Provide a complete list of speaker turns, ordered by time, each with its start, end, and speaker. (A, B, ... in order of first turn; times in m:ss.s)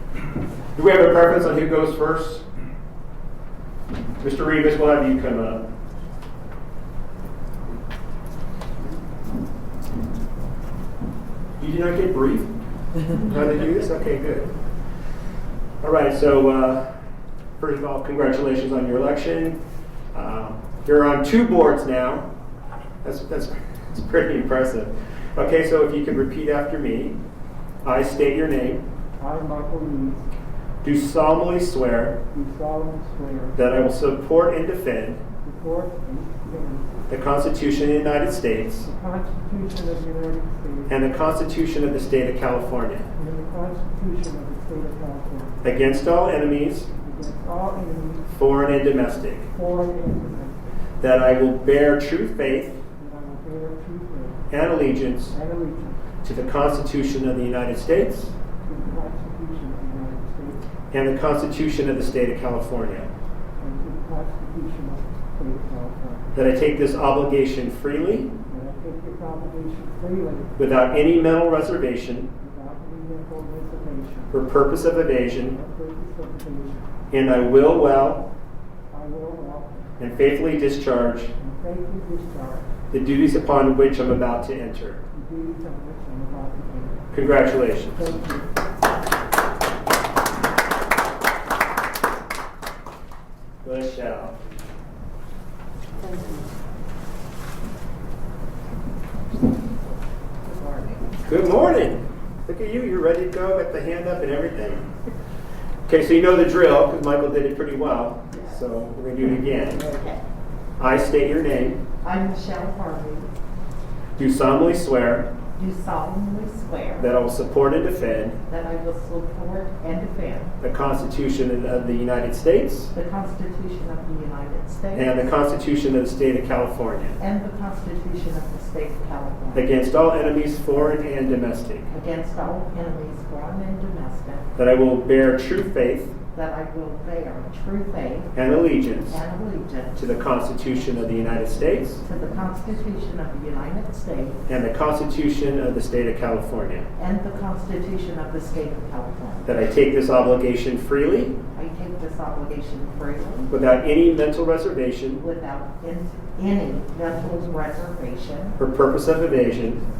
0:00.8-0:02.4 A
0:04.2-0:05.6 A
0:11.6-0:12.5 A
0:13.1-0:14.5 A
0:15.8-0:16.9 A
0:17.6-0:19.6 A
0:20.1-0:22.3 A
0:23.0-0:27.1 A
0:27.8-0:28.8 A
0:29.2-0:30.2 B
0:30.8-0:32.2 A
0:32.3-0:33.6 B
0:33.6-0:35.2 A
0:35.4-0:37.0 B
0:37.1-0:38.9 A
0:38.8-0:40.9 B
0:40.9-0:43.1 A
0:43.2-0:45.6 B
0:45.6-0:46.9 A
0:46.9-0:48.3 B
0:48.3-0:49.5 A
0:49.5-0:50.7 B
0:51.0-0:52.8 A
0:52.8-0:54.4 B
0:54.5-0:55.3 A
0:55.3-0:56.0 B
0:56.2-0:58.4 A
0:58.6-1:00.6 B
1:00.9-1:03.1 A
1:03.6-1:06.3 B
1:06.3-1:08.3 A
1:08.5-1:10.5 B
1:10.6-1:12.3 A
1:12.4-1:14.5 B
1:14.3-1:15.6 A
1:15.4-1:16.9 B
1:17.1-1:18.2 A
1:18.9-1:19.9 B
1:20.0-1:21.3 A
1:21.4-1:22.7 B
1:22.9-1:25.0 A
1:25.1-1:27.1 B
1:27.1-1:28.1 A
1:27.9-1:28.6 B
1:33.6-1:34.3 A
1:36.0-1:36.4 C
1:40.4-1:41.0 C
1:41.2-1:44.9 A
1:45.9-1:49.9 A
1:48.3-1:48.7 C
1:49.7-1:50.2 C
1:50.8-1:51.8 A
1:52.0-1:53.3 C
1:54.2-1:55.3 A
1:55.6-1:57.1 C
1:57.0-1:58.4 A
1:58.5-2:00.5 C
2:00.6-2:02.9 A
2:02.9-2:05.3 C
2:05.0-2:07.2 A
2:07.2-2:09.7 C
2:09.6-2:11.9 A
2:11.9-2:14.5 C
2:14.6-2:16.1 A
2:16.3-2:18.3 C
2:18.4-2:19.2 A
2:19.1-2:21.1 C
2:20.0-2:22.0 A
2:22.0-2:24.4 C
2:24.5-2:26.8 A
2:27.0-2:29.5 C
2:29.5-2:31.4 A
2:31.5-2:33.5 C
2:33.5-2:35.2 A
2:35.2-2:38.6 C
2:38.6-2:39.8 A